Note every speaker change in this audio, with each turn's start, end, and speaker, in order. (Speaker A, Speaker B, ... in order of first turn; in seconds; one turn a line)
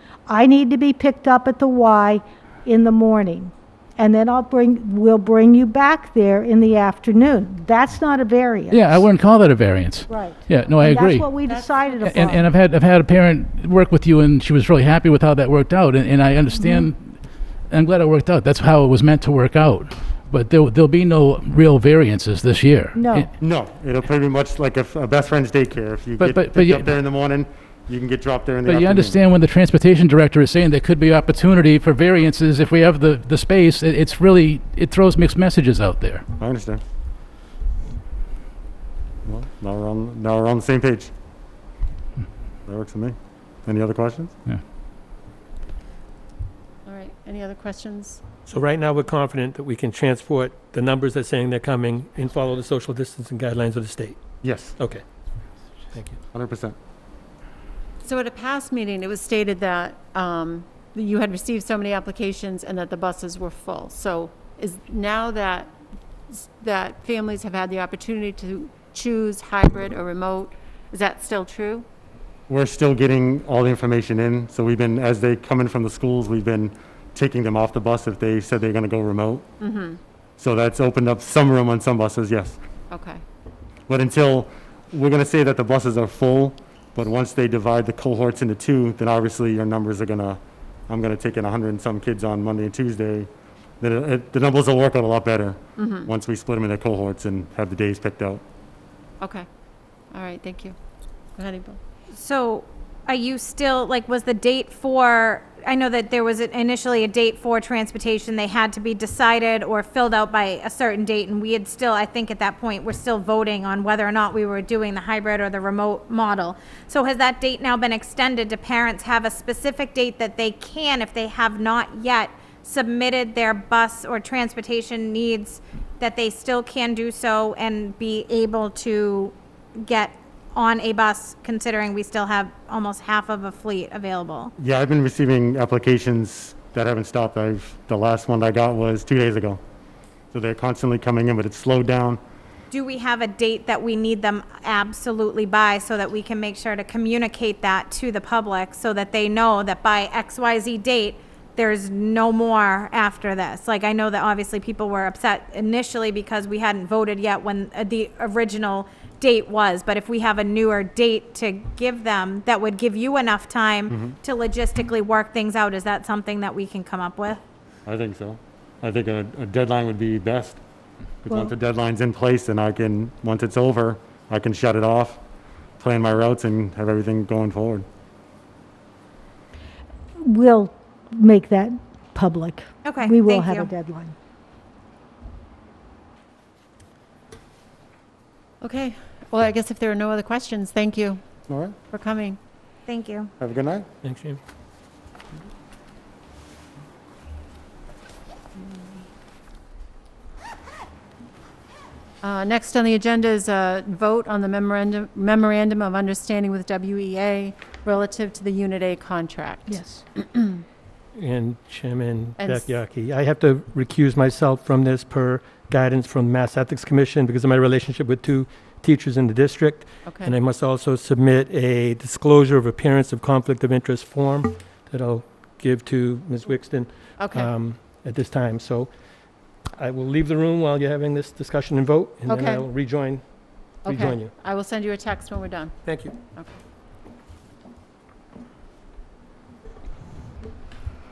Speaker A: 0.3-9.1
Speaker B: 8.7-11.3
Speaker A: 10.1-12.4
Speaker C: 11.4-12.3
Speaker B: 12.0-23.3
Speaker A: 16.6-16.9
Speaker A: 22.9-23.3
Speaker D: 23.4-29.2
Speaker B: 26.2-26.9
Speaker B: 28.7-36.2
Speaker D: 36.4-36.8
Speaker D: 39.2-41.1
Speaker D: 42.6-44.3
Speaker C: 46.9-48.3
Speaker E: 48.5-54.2
Speaker D: 54.4-54.8
Speaker E: 54.8-55.0
Speaker D: 56.3-56.8
Speaker C: 58.0-65.7
Speaker C: 66.3-71.9
Speaker D: 72.5-79.5
Speaker C: 79.6-80.0
Speaker D: 80.4-82.6
Speaker C: 82.9-83.2
Speaker D: 83.9-93.3
Speaker D: 93.8-98.4
Speaker C: 95.8-96.1
Speaker C: 99.2-99.5
Speaker C: 100.1-100.8
Speaker C: 101.3-101.8
Speaker F: 102.1-134.5
Speaker D: 134.6-139.6
Speaker D: 140.3-142.2
Speaker F: 142.7-167.4
Speaker D: 163.9-164.2
Speaker D: 167.8-170.6
Speaker D: 171.2-175.2
Speaker D: 175.8-177.8
Speaker A: 180.2-184.1
Speaker F: 182.8-183.7
Speaker C: 188.6-191.2
Speaker D: 191.5-191.8
Speaker C: 191.9-192.4
Speaker F: 192.9-193.3
Speaker D: 193.4-193.8
Speaker E: 194.0-194.4
Speaker C: 198.6-198.8
Speaker C: 202.2-210.6
Speaker A: 209.7-210.0
Speaker E: 211.1-228.9
Speaker C: 212.4-212.7
Speaker C: 220.1-220.3
Speaker C: 227.2-227.5
Speaker E: 229.8-233.2
Speaker C: 232.2-232.7
Speaker E: 233.8-234.3
Speaker C: 233.8-236.6
Speaker E: 235.8-236.2